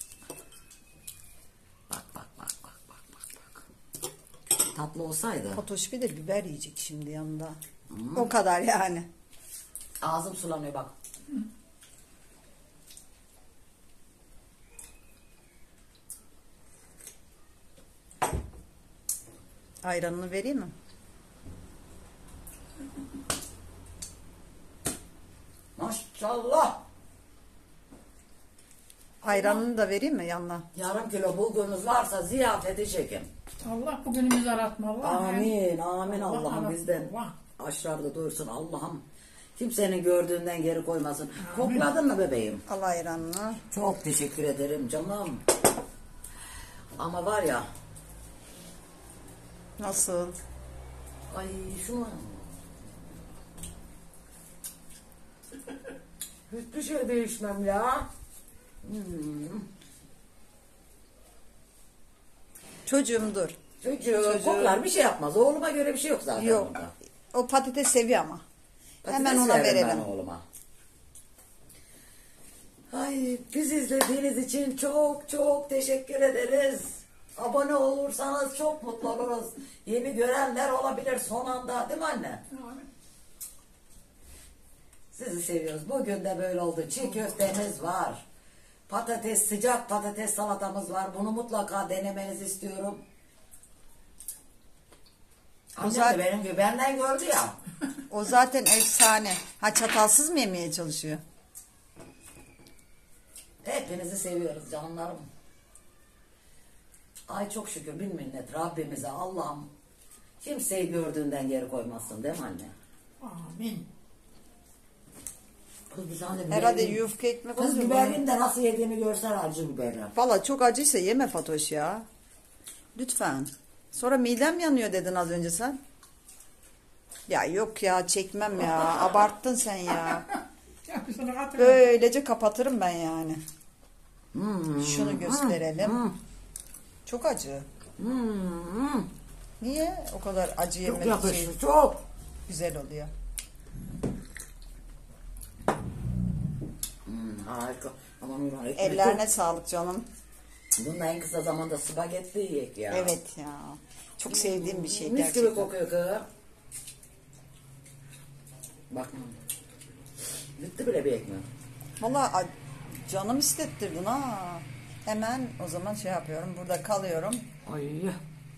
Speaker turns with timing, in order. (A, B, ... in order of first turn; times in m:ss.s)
0:01.9-0:03.6 A
0:04.7-0:05.6 A
0:05.5-0:07.6 B
0:07.9-0:08.3 A
0:08.2-0:09.1 B
0:10.0-0:10.9 A
0:19.8-0:20.7 B
0:25.8-0:26.8 A
0:29.2-0:30.7 B
0:29.3-0:29.6 C
0:30.8-0:33.3 A
0:33.6-0:35.5 C
0:35.0-0:39.0 A
0:36.1-0:37.4 C
0:39.6-0:42.6 A
0:41.4-0:41.9 C
0:42.7-0:43.6 B
0:43.7-0:45.4 A
0:47.0-0:47.7 A
0:49.8-0:50.4 B
0:51.3-0:52.4 A
0:56.5-0:58.1 A
0:58.8-0:59.7 A
1:02.9-1:03.6 B
1:03.8-1:06.9 A
1:04.2-1:04.8 B
1:06.4-1:06.7 B
1:07.3-1:08.4 B
1:09.0-1:10.4 A
1:09.1-1:10.1 B
1:12.9-1:22.4 A
1:22.5-1:22.9 C
1:25.1-1:28.2 A
1:28.9-1:33.0 A
1:35.7-1:37.6 A
1:35.8-1:36.2 B
1:38.1-1:41.2 B
1:43.6-1:45.3 A
1:47.3-1:49.7 A
1:50.4-1:52.7 A
1:53.2-1:53.9 C
1:55.9-1:57.0 A
1:56.5-1:58.2 B
1:57.6-2:00.1 A
2:00.2-2:02.1 B
2:03.0-2:05.8 B
2:07.3-2:10.3 B
2:10.9-2:11.8 C
2:11.6-2:13.4 B
2:14.3-2:16.2 A
2:14.8-2:16.0 B
2:17.1-2:17.7 B
2:18.0-2:19.1 A
2:19.6-2:21.5 B
2:20.8-2:22.0 A
2:22.5-2:23.1 B
2:27.1-2:29.2 A
2:28.8-2:30.1 B
2:30.8-2:33.1 A
2:32.9-2:35.7 B
2:34.3-2:36.3 A
2:38.9-2:39.3 A
2:40.6-2:41.5 A
2:42.0-2:42.5 B
2:43.0-2:47.4 B
2:47.6-2:48.2 A